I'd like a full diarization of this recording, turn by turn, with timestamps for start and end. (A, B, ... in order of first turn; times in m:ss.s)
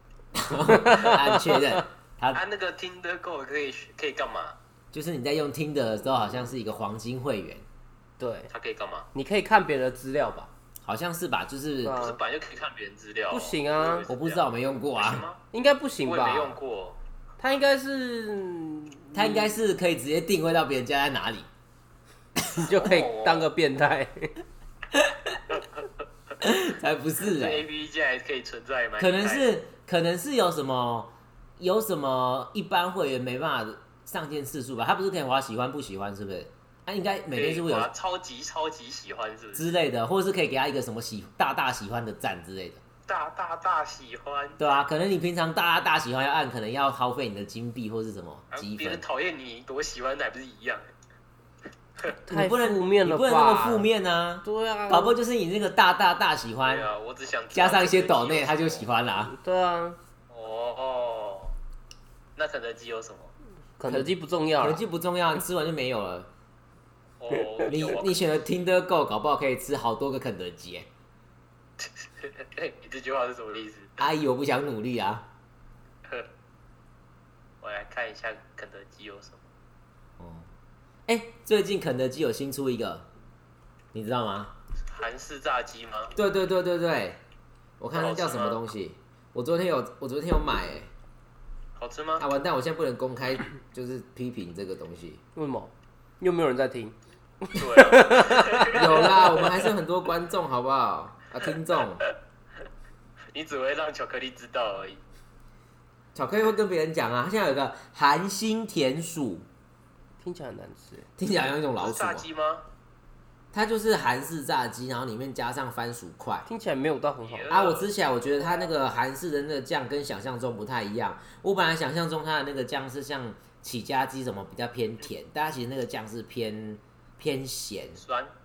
0:00.3-0:02.4 A
0:00.7-0:01.8 B
0:02.3-0:04.6 C
0:04.9-0:07.6 A
0:08.2-0:08.5 B
0:08.5-0:09.1 C
0:09.1-0:10.5 B
0:10.8-0:12.0 A
0:11.8-0:12.2 B
0:11.9-0:15.4 C
0:13.3-0:14.1 B
0:14.1-0:15.3 A
0:15.5-0:16.6 B
0:16.0-0:17.0 C
0:17.4-0:19.6 B
0:19.1-0:21.5 A
0:22.5-0:24.4 B
0:22.8-0:23.5 C
0:25.0-0:25.4 A
0:25.5-0:25.8 C
0:26.4-0:27.6 A
0:27.2-0:29.5 C
0:29.0-0:37.9 A
0:37.3-0:39.7 C
0:39.6-0:42.8 A
0:43.1-0:44.7 C
0:44.6-0:49.0 A
0:48.5-0:50.9 C
0:52.3-0:53.9 B
0:52.3-0:56.9 A
0:54.4-0:55.2 B
0:56.6-0:58.9 C
0:57.5-0:59.3 A
0:59.2-1:00.0 B
1:00.3-1:01.5 C
1:02.4-1:03.3 C
1:03.8-1:04.8 B
1:03.9-1:06.3 A
1:07.2-1:08.2 C
1:07.6-1:10.9 A
1:11.8-1:14.0 C
1:14.0-1:15.3 A
1:17.6-1:19.5 C
1:20.2-1:20.5 A
1:21.1-1:23.1 A
1:23.9-1:24.6 A
1:24.9-1:26.2 C
1:26.2-1:27.2 A
1:27.8-1:30.9 A
1:27.9-1:28.6 C
1:31.8-1:32.3 C
1:32.2-1:35.2 A
1:35.4-1:38.9 B
1:37.6-1:39.6 C
1:38.7-1:42.0 A
1:43.3-1:45.0 C
1:46.2-1:49.5 A
1:50.2-1:51.1 B
1:51.2-1:52.2 A
1:51.8-1:52.6 C
1:53.5-1:56.5 A
1:56.5-1:57.5 B
1:57.2-1:58.7 C
1:57.5-2:08.0 A
2:08.0-2:08.3 C